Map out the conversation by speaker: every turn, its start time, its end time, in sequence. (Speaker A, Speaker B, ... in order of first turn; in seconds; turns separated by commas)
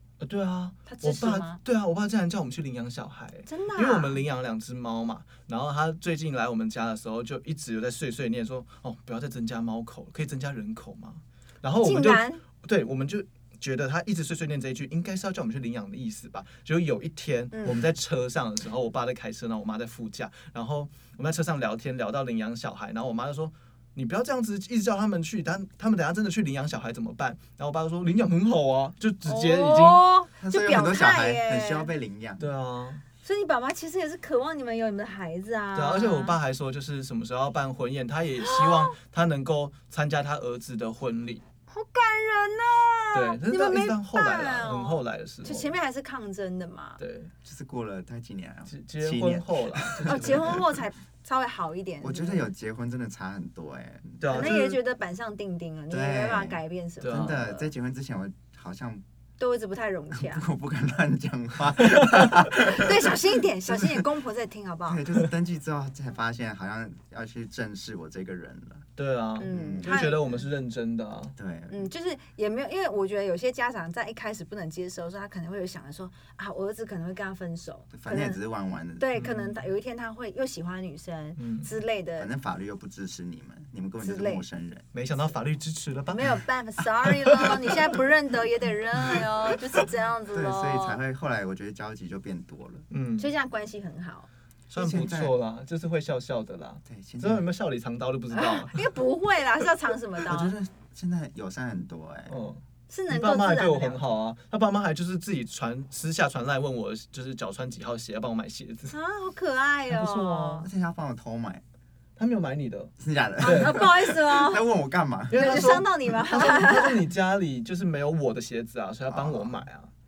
Speaker A: 0.2-30.1, Speaker B: 0.9-1.6, Speaker B: 3.5-4.2, Speaker B: 11.8-12.4, Speaker B: 17.5-17.8, Speaker B: 29.2-31.9, Speaker C: 30.4-32.5, Speaker A: 32.4-33.0, Speaker B: 33.2-36.4, Speaker A: 35.8-41.4, Speaker B: 38.4-39.0, Speaker B: 41.7-47.0, Speaker A: 43.1-45.8, Speaker A: 47.0-47.3, Speaker C: 47.4-50.6, Speaker A: 48.7-50.6, Speaker B: 50.0-52.5, Speaker C: 52.0-54.6, Speaker A: 54.2-54.8, Speaker B: 54.3-57.7, Speaker C: 55.9-59.0, Speaker A: 57.0-57.4, Speaker B: 59.4-60.5, Speaker C: 60.1-63.1, Speaker B: 62.5-65.0, Speaker C: 63.7-64.0, Speaker C: 64.9-68.9, Speaker A: 69.0-71.4, Speaker B: 69.4-70.4, Speaker C: 69.5-70.1, Speaker C: 71.4-71.9, Speaker B: 71.7-78.4, Speaker C: 77.9-79.1, Speaker B: 79.0-82.3, Speaker A: 79.2-79.7, Speaker A: 81.4-81.7, Speaker C: 82.2-84.9, Speaker B: 84.0-84.4, Speaker A: 84.9-86.4, Speaker B: 86.1-91.0, Speaker A: 87.1-87.7, Speaker C: 90.3-92.9, Speaker A: 92.9-93.3, Speaker B: 93.2-94.3, Speaker A: 94.7-98.9, Speaker C: 94.7-95.3, Speaker C: 96.9-97.5, Speaker B: 98.3-100.5, Speaker C: 100.2-102.4, Speaker A: 102.3-109.0, Speaker B: 102.9-104.0, Speaker B: 108.9-110.7, Speaker A: 109.9-110.7, Speaker C: 110.6-111.6, Speaker A: 112.2-113.9, Speaker C: 113.0-115.8, Speaker B: 113.4-114.7, Speaker A: 115.3-119.9, Speaker B: 115.3-117.0, Speaker C: 119.1-119.6